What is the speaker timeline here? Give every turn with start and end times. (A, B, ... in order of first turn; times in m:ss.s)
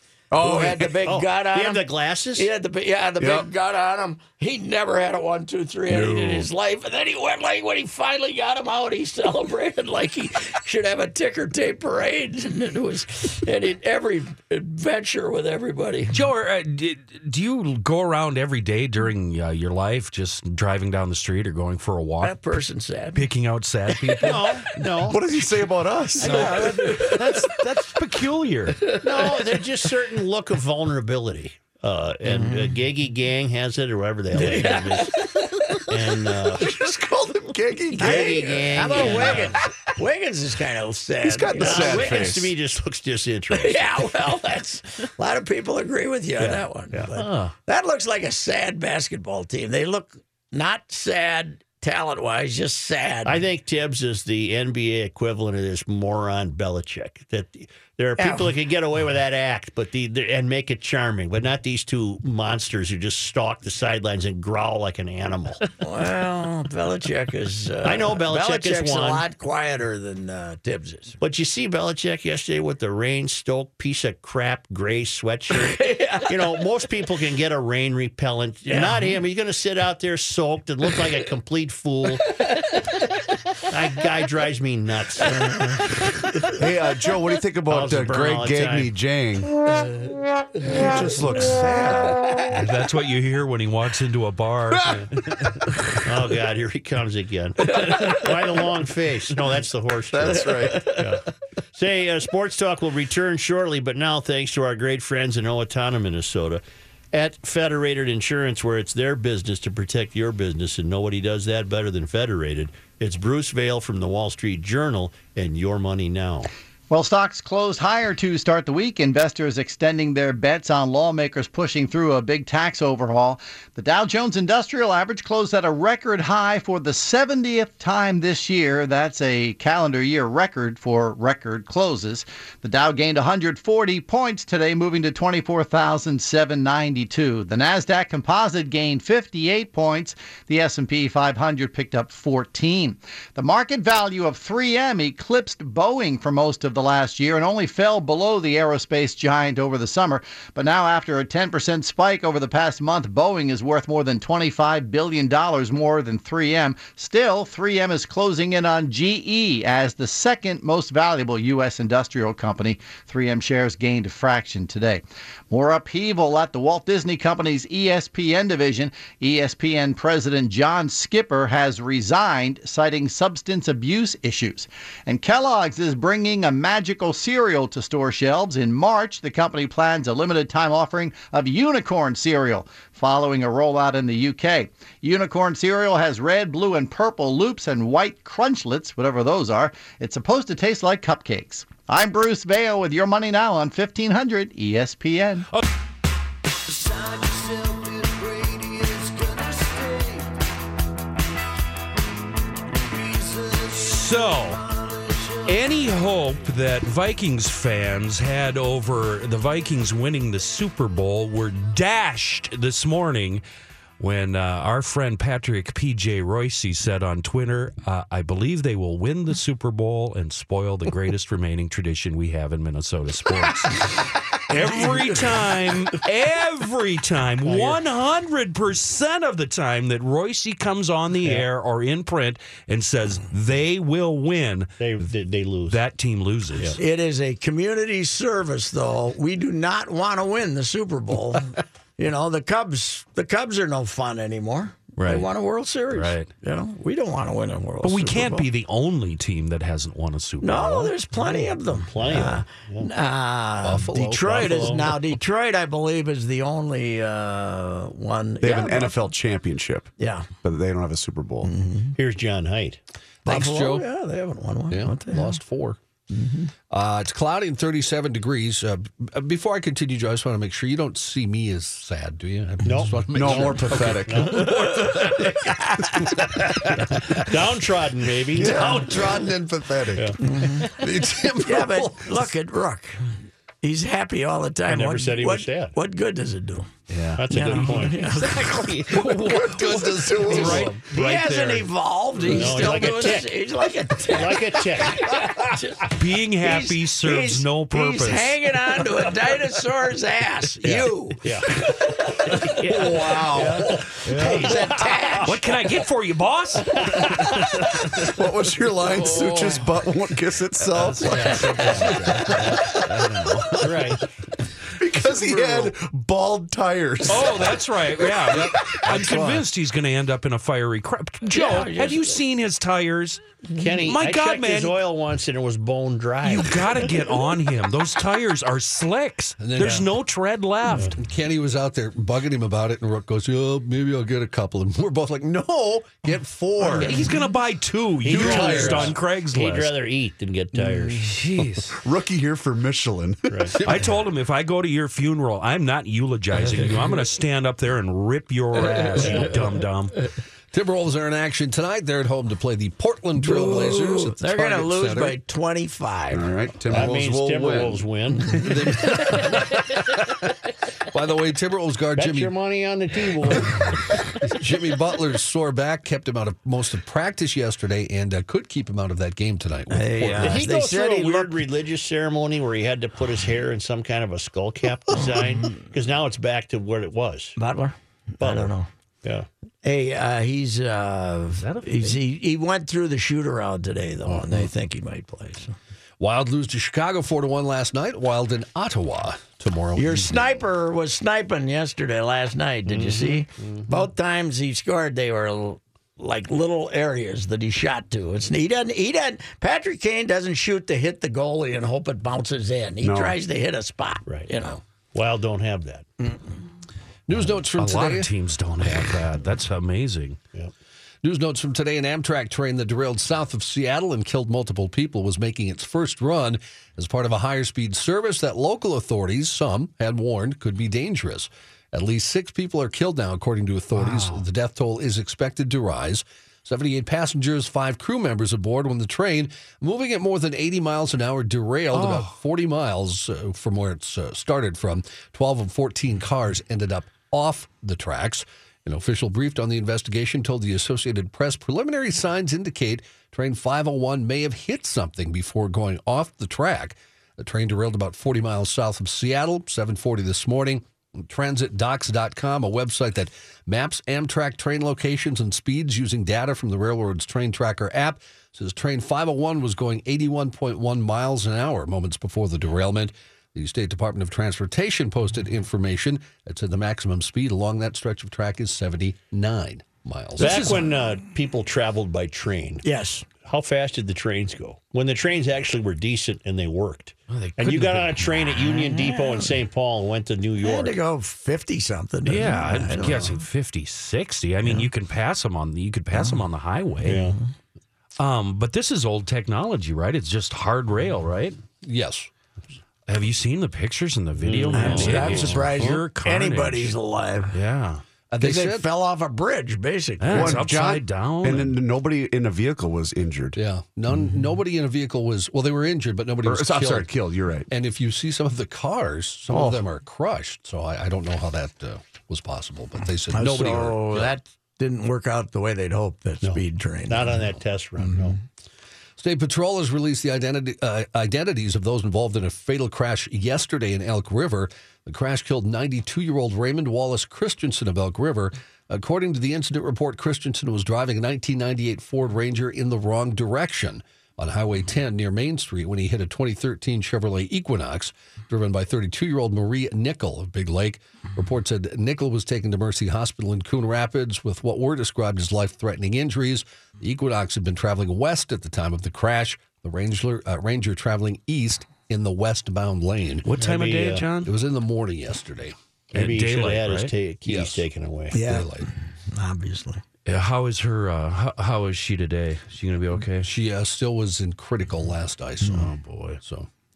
0:00.3-0:01.0 A
0:00.4-0:16.2 B
0:01.0-0:02.5 C
0:03.2-0:03.5 A
0:05.9-0:06.5 A
0:16.1-0:22.4 D
0:22.2-0:23.3 B
0:23.1-0:25.2 D
0:23.9-0:24.4 B
0:24.2-0:25.2 C
0:25.0-0:26.8 A
0:26.2-0:27.5 B
0:26.2-0:29.0 D
0:28.9-0:29.6 B
0:29.0-0:36.7 C
0:32.2-0:32.8 B
0:34.3-0:35.9 B
0:36.6-0:39.5 A
0:38.0-0:42.4 B
0:38.0-0:39.6 C
0:41.2-0:42.5 A
0:41.5-0:43.9 C
0:43.5-0:53.4 B
0:46.4-0:47.1 C
0:47.2-0:47.5 D
0:53.2-1:05.6 C
0:58.2-0:58.5 B
1:05.8-1:11.2 B
1:07.8-1:09.2 C
1:11.2-1:22.4 C
1:15.5-1:16.6 B
1:18.7-1:19.2 B
1:23.7-1:25.6 C
1:25.2-1:26.5 B
1:26.5-1:29.5 A
1:27.7-1:28.9 C
1:30.6-1:32.2 A
1:32.5-1:35.5 D
1:36.0-1:56.5 C
1:37.9-1:38.2 B
1:40.1-1:40.8 A
1:40.7-1:41.0 B
1:56.9-3:15.5 E
3:16.9-3:20.3 B
3:22.9-3:25.5 B
3:23.7-3:24.6 D
3:25.4-3:33.4 D
3:34.0-3:54.7 D
3:47.4-3:47.8 C
3:54.8-3:55.8 C
3:55.7-3:56.8 D
3:56.8-4:08.5 B
4:05.0-4:05.2 C
4:05.9-4:06.3 D
4:07.8-4:10.9 D
4:10.4-4:19.0 B
4:11.9-4:12.9 C
4:13.6-4:14.7 F
4:14.2-4:15.0 C
4:18.4-4:19.9 A
4:20.0-4:20.3 B
4:20.4-4:21.5 A
4:21.4-4:22.0 B
4:22.0-4:22.8 C
4:23.2-4:25.3 B
4:23.2-4:23.9 F
4:24.7-4:25.8 F
4:26.1-4:26.5 B
4:26.7-4:34.2 F
4:32.6-4:35.4 C
4:33.1-4:34.5 A
4:34.5-4:36.2 B
4:36.8-4:39.0 C
4:38.3-4:40.1 A
4:38.3-4:39.9 F
4:40.2-4:40.7 B
4:40.7-4:42.3 F
4:41.4-4:46.7 B
4:44.7-4:45.8 C
4:46.9-4:51.7 D
4:47.2-4:48.8 C
4:47.3-4:48.9 B
4:49.0-4:50.7 A
4:49.3-4:50.3 F
4:50.3-5:03.4 B
4:50.3-4:50.8 C
4:52.2-4:53.4 C
4:52.3-4:52.8 D
4:54.1-4:55.1 C
4:56.0-4:58.5 D
5:00.6-5:01.5 C
5:02.4-5:05.3 C
5:02.7-5:03.7 A
5:02.8-5:08.1 D
5:03.9-5:05.4 B
5:06.8-5:07.6 C
5:08.0-5:11.5 A
5:10.7-5:14.0 D
5:11.3-5:12.0 C
5:13.6-5:14.0 C
5:14.8-5:18.8 A
5:17.1-5:23.2 D
5:18.9-5:19.4 F
5:21.3-5:22.2 B
5:23.6-5:26.7 C
5:23.7-5:24.8 D
5:26.2-5:31.0 D
5:29.4-5:29.9 F
5:29.6-5:29.8 C
5:30.7-5:31.0 C
5:30.9-5:37.2 F
5:36.8-5:37.1 C
5:36.8-5:39.7 D
5:38.0-5:41.1 C
5:38.0-5:38.9 F
5:41.0-5:41.8 D
5:41.8-5:43.5 A
5:43.3-5:43.6 C
5:43.6-5:50.0 D
5:49.0-5:49.5 C
5:50.5-5:55.2 F
5:53.2-5:56.3 B
5:56.1-5:57.8 A
5:56.7-5:58.5 C
5:58.3-5:59.7 F
6:00.9-6:02.3 F
6:02.0-6:03.8 C
6:04.2-6:10.4 F
6:09.7-6:11.4 B
6:10.2-6:17.4 C
6:17.4-6:18.7 B
6:18.2-6:18.5 C
6:19.6-6:25.6 B
6:21.3-6:22.0 D
6:24.0-6:24.4 F
6:26.0-6:30.4 F
6:29.8-6:44.6 B
6:32.7-6:33.6 C
6:42.8-6:43.2 A
6:44.1-6:44.3 C
6:44.9-6:45.9 C
6:47.1-6:48.1 F
6:47.2-6:50.2 D
6:51.0-7:50.6 F
7:03.8-7:04.2 D
7:11.7-7:12.2 D
7:50.2-7:52.6 C
7:50.2-7:50.5 D
7:52.6-7:53.0 B
7:53.2-8:00.8 C
7:57.1-7:58.3 D
7:58.4-7:59.3 B
8:00.4-8:03.2 B
8:02.0-8:07.1 D
8:06.8-8:07.2 C
8:08.0-8:11.4 D
8:11.6-8:12.1 F
8:12.9-8:16.8 D
8:14.2-8:15.5 C
8:14.5-8:17.4 B
8:17.3-8:17.8 D
8:18.1-8:18.7 F
8:18.2-8:20.5 B
8:20.0-8:21.6 D
8:20.1-8:23.4 A
8:23.3-8:26.9 F
8:26.2-8:27.5 A
8:27.5-8:34.2 F
8:29.3-8:29.6 A
8:33.1-8:37.3 B
8:36.2-8:38.2 C
8:39.0-9:13.3 F
9:13.2-9:14.3 D
9:13.4-9:14.1 C
9:14.2-9:15.5 F
9:15.9-9:16.9 D
9:15.9-9:18.2 C
9:17.2-9:17.6 F
9:18.1-9:19.8 B
9:18.2-9:18.7 F
9:20.0-9:23.3 D
9:23.2-9:26.5 F
9:25.4-9:26.2 D